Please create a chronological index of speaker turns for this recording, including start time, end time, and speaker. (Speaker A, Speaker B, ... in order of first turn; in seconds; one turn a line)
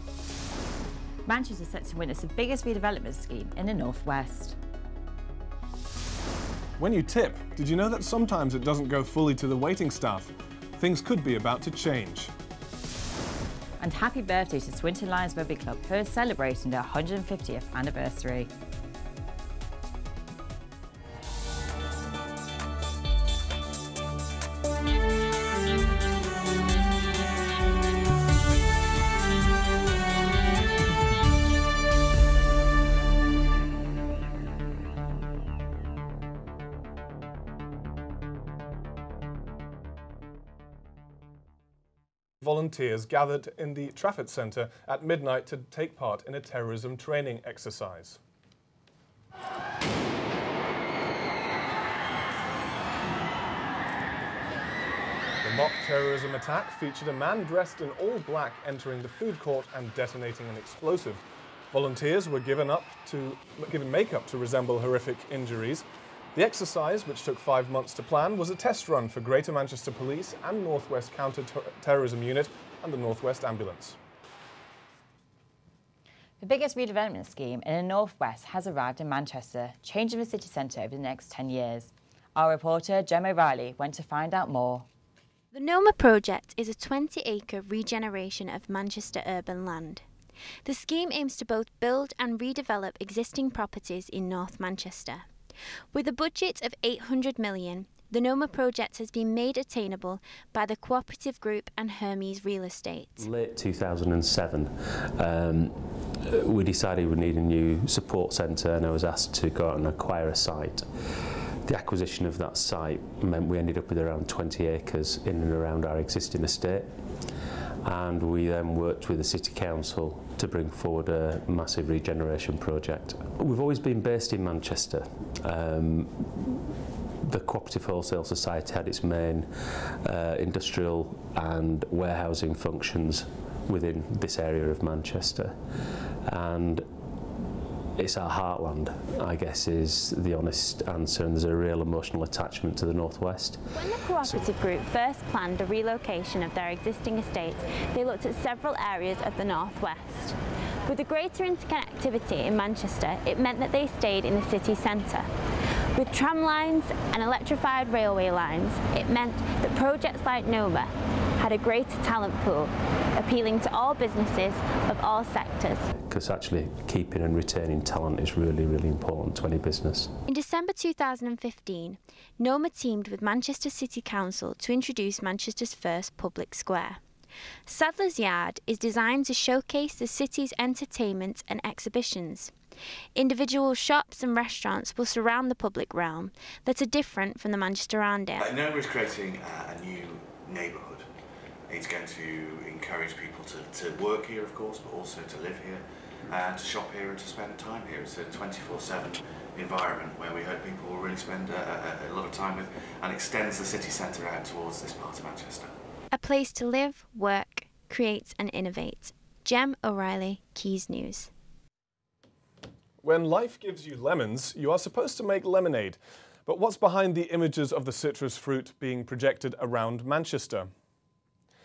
Speaker A: 1.3-4.5
Speaker B: 6.8-12.3
Speaker A: 13.8-18.5
Speaker B: 42.4-48.2
Speaker B: 55.4-74.0
Speaker A: 76.4-84.8
Speaker C: 85.5-90.0
Speaker C: 90.6-95.3
Speaker C: 95.9-103.2
Speaker D: 103.2-105.8
Speaker D: 106.3-110.8
Speaker D: 111.7-116.9
Speaker D: 117.8-126.5
Speaker D: 127.2-129.5
Speaker D: 130.0-135.6
Speaker D: 136.3-136.8
Speaker D: 138.0-144.6
Speaker C: 143.8-150.3
Speaker C: 150.9-155.3
Speaker C: 156.0-160.9
Speaker C: 161.4-165.8
Speaker D: 166.0-170.1
Speaker C: 170.3-177.0
Speaker C: 177.7-182.5
Speaker C: 183.2-188.4
Speaker E: 188.4-191.0
Speaker E: 191.7-205.7
Speaker C: 206.1-211.3
Speaker B: 213.0-220.7